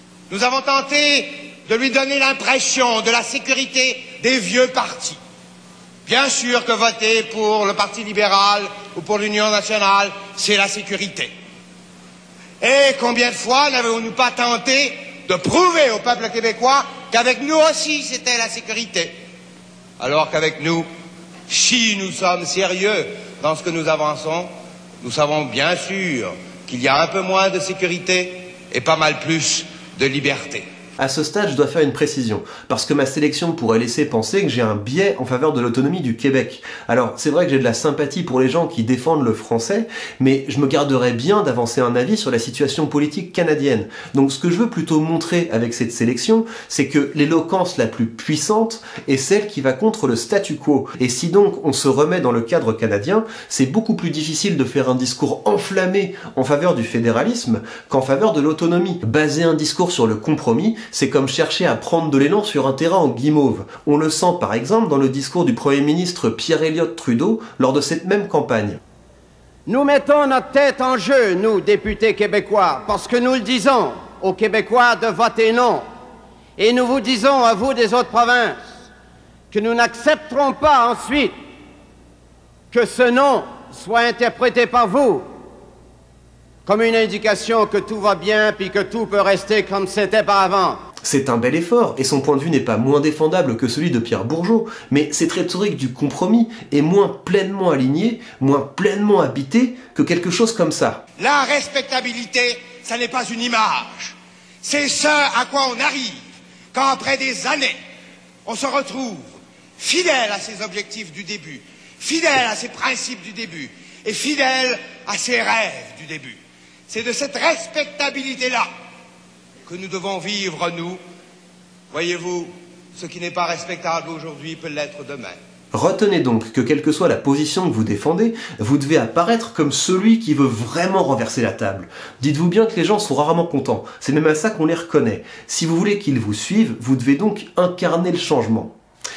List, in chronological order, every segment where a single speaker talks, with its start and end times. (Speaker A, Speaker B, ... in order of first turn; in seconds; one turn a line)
Speaker A: 0.3-5.2
Speaker A: 6.1-11.3
Speaker A: 12.6-19.1
Speaker A: 20.0-20.9
Speaker A: 21.5-24.5
Speaker A: 25.0-30.7
Speaker B: 31.0-68.8
Speaker C: 69.7-75.8
Speaker C: 76.6-78.5
Speaker C: 79.5-81.3
Speaker C: 82.7-85.2
Speaker C: 86.7-90.7
Speaker B: 91.0-101.0
Speaker A: 101.2-106.2
Speaker A: 106.7-107.8
Speaker A: 108.5-118.7
Speaker A: 119.7-121.0
Speaker A: 121.9-125.4
Speaker B: 125.7-138.7